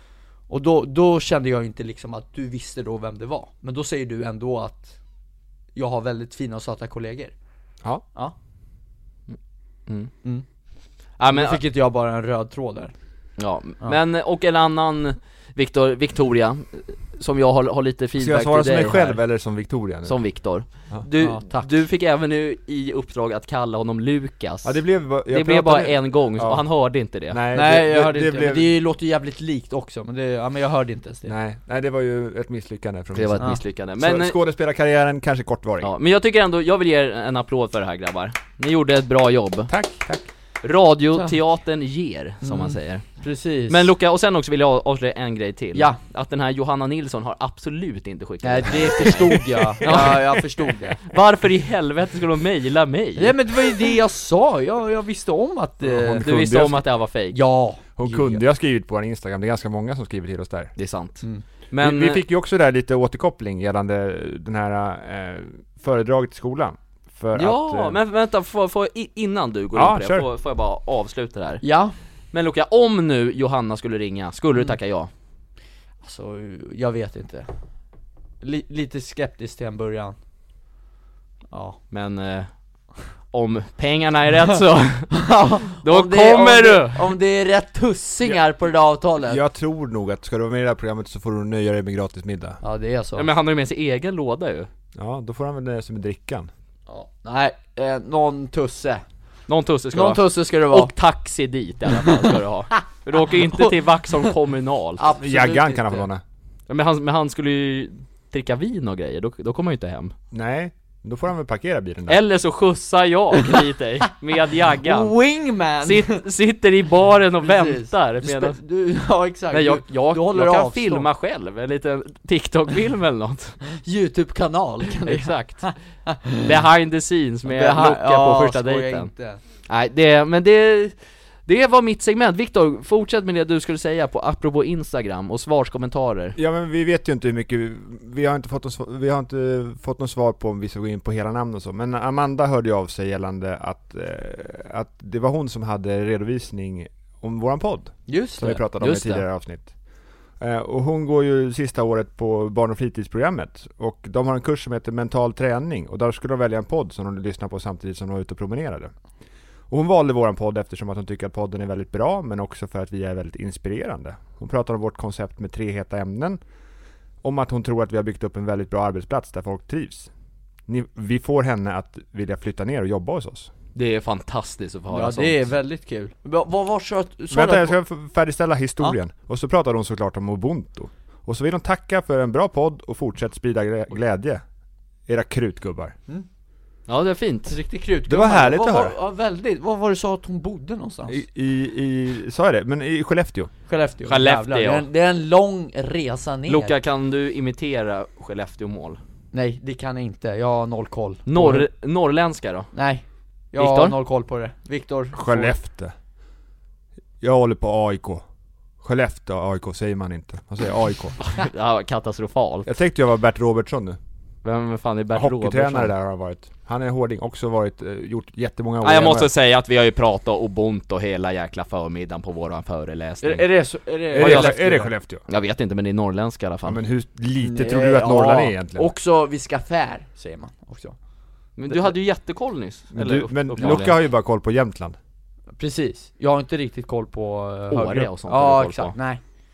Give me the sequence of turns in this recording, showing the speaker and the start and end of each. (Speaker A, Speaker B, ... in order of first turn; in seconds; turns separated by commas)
Speaker A: 0.5-5.0, Speaker A: 5.7-7.3, Speaker B: 11.2-11.6, Speaker A: 11.3-12.9, Speaker B: 13.4-19.2, Speaker C: 18.2-20.1, Speaker B: 20.0-27.4, Speaker A: 21.2-21.8, Speaker C: 24.6-26.6, Speaker C: 27.3-28.7, Speaker A: 27.5-31.3, Speaker C: 31.2-35.9, Speaker B: 33.1-34.4, Speaker B: 35.8-39.7, Speaker C: 39.7-40.2, Speaker B: 40.6-50.5, Speaker A: 42.4-43.9, Speaker A: 48.4-51.0, Speaker B: 51.0-53.3, Speaker A: 53.2-56.2, Speaker C: 55.8-56.8, Speaker B: 56.2-57.4, Speaker A: 57.3-58.4, Speaker C: 58.0-60.7, Speaker B: 60.8-62.2, Speaker C: 61.8-68.0, Speaker B: 67.3-71.6, Speaker C: 69.7-70.2, Speaker A: 71.6-71.9, Speaker B: 72.3-75.1, Speaker A: 76.0-77.5, Speaker A: 78.4-80.2, Speaker A: 81.5-81.8, Speaker B: 81.9-82.6, Speaker B: 83.1-87.1, Speaker A: 85.1-89.4, Speaker C: 89.3-92.6, Speaker A: 92.6-93.3, Speaker B: 93.2-94.7, Speaker C: 94.9-96.5, Speaker A: 96.9-99.0, Speaker B: 99.5-105.0, Speaker A: 99.9-100.9, Speaker A: 102.0-102.3, Speaker A: 103.3-103.7, Speaker A: 105.0-106.1, Speaker C: 105.2-106.2, Speaker B: 106.7-110.1, Speaker C: 110.3-112.2, Speaker B: 112.1-115.1, Speaker A: 114.8-116.2, Speaker B: 115.8-118.6, Speaker A: 117.4-121.1, Speaker B: 119.5-123.6, Speaker A: 123.8-126.5, Speaker B: 125.0-125.7, Speaker B: 126.4-129.1, Speaker A: 127.5-129.4, Speaker B: 129.7-136.3, Speaker C: 136.3-149.7, Speaker A: 148.1-148.6, Speaker B: 148.8-149.2, Speaker C: 150.4-158.9, Speaker C: 159.7-166.4, Speaker C: 167.2-170.1, Speaker C: 170.7-173.5, Speaker B: 173.7-175.4, Speaker A: 174.9-177.8, Speaker C: 177.3-184.4, Speaker C: 185.1-185.9, Speaker B: 186.9-187.6, Speaker A: 187.5-191.2, Speaker C: 188.1-188.9, Speaker C: 191.1-193.5, Speaker A: 193.7-196.7, Speaker B: 194.1-194.8, Speaker B: 196.5-199.0, Speaker A: 199.3-201.7, Speaker B: 201.3-202.7, Speaker A: 202.7-205.6, Speaker B: 203.6-203.9, Speaker C: 205.1-205.9, Speaker C: 207.2-208.2, Speaker C: 208.8-211.2, Speaker B: 211.2-212.7, Speaker C: 212.6-214.0, Speaker B: 214.4-215.9, Speaker C: 215.1-219.3, Speaker B: 218.8-223.4, Speaker A: 223.2-224.9, Speaker C: 224.1-225.2, Speaker B: 224.1-224.7, Speaker B: 225.3-226.8, Speaker C: 226.6-228.9, Speaker A: 227.4-230.9, Speaker B: 231.6-234.0, Speaker C: 232.9-235.0, Speaker A: 235.6-239.2, Speaker B: 237.7-238.9